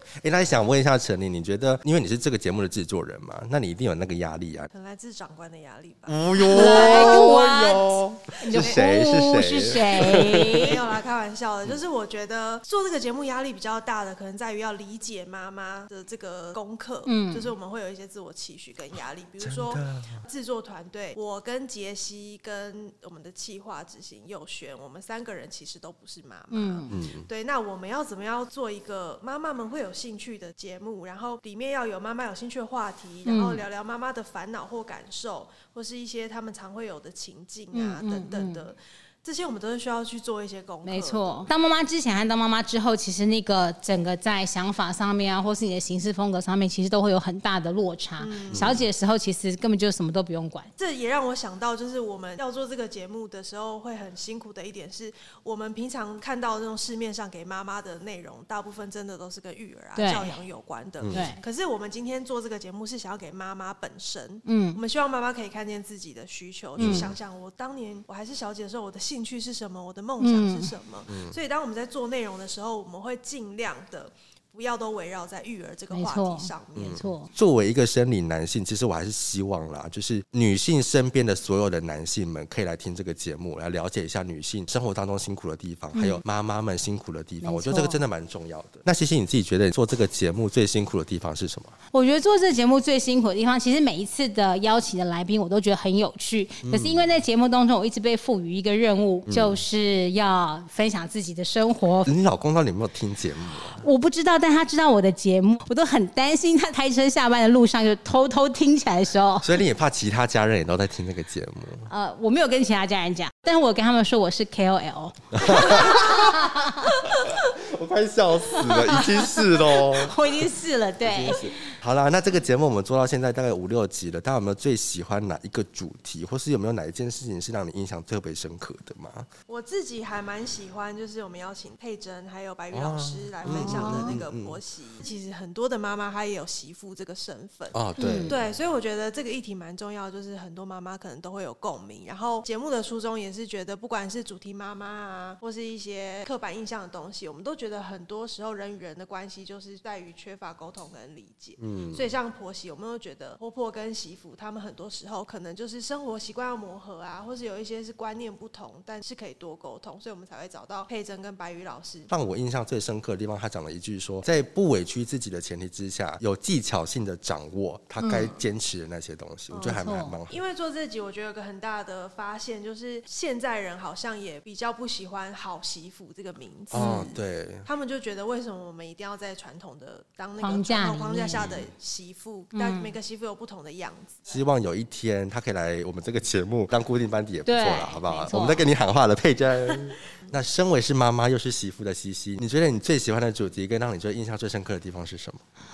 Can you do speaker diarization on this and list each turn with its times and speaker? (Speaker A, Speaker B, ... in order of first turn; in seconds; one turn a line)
Speaker A: 0.2-4.7
Speaker B: 4.7-7.3
Speaker A: 6.1-10.7
Speaker C: 6.5-10.8
Speaker B: 8.5-8.8
Speaker B: 9.9-41.5
Speaker C: 17.1-17.5
Speaker A: 19.4-20.2
Speaker C: 26.5-27.0
Speaker A: 26.9-27.3
Speaker C: 33.2-33.6
Speaker C: 37.7-38.6
Speaker C: 40.8-50.7
Speaker B: 48.2-48.8
Speaker A: 48.5-48.8
Speaker B: 50.8-77.1
Speaker C: 60.0-60.3
Speaker A: 61.0-61.3
Speaker C: 61.1-61.4
Speaker C: 64.5-64.8
Speaker A: 66.8-67.1
Speaker C: 66.8-67.1
Speaker C: 70.2-70.7
Speaker A: 71.1-71.3
Speaker C: 75.9-77.3
Speaker A: 76.7-91.7
Speaker C: 85.9-86.2
Speaker C: 87.4-88.0
Speaker C: 91.9-102.1
Speaker A: 96.6-97.1
Speaker A: 99.3-99.6
Speaker A: 102.0-103.8
Speaker C: 103.7-109.6
Speaker A: 109.4-111.9
Speaker C: 111.9-116.9
Speaker A: 115.3-116.2
Speaker A: 117.5-120.2
Speaker C: 118.5-121.5
Speaker A: 121.0-129.3
Speaker B: 129.5-162.1
Speaker A: 132.7-134.6
Speaker C: 133.4-134.2
Speaker A: 137.7-138.4
Speaker C: 138.0-138.4
Speaker A: 151.6-152.1
Speaker A: 162.1-170.4
Speaker C: 168.0-168.3
Speaker B: 168.1-168.4
Speaker B: 169.5-184.2
Speaker C: 169.6-170.2
Speaker A: 176.7-177.7
Speaker C: 176.7-177.1
Speaker C: 180.4-181.5
Speaker C: 182.5-182.9
Speaker A: 184.3-195.4
Speaker C: 187.4-188.7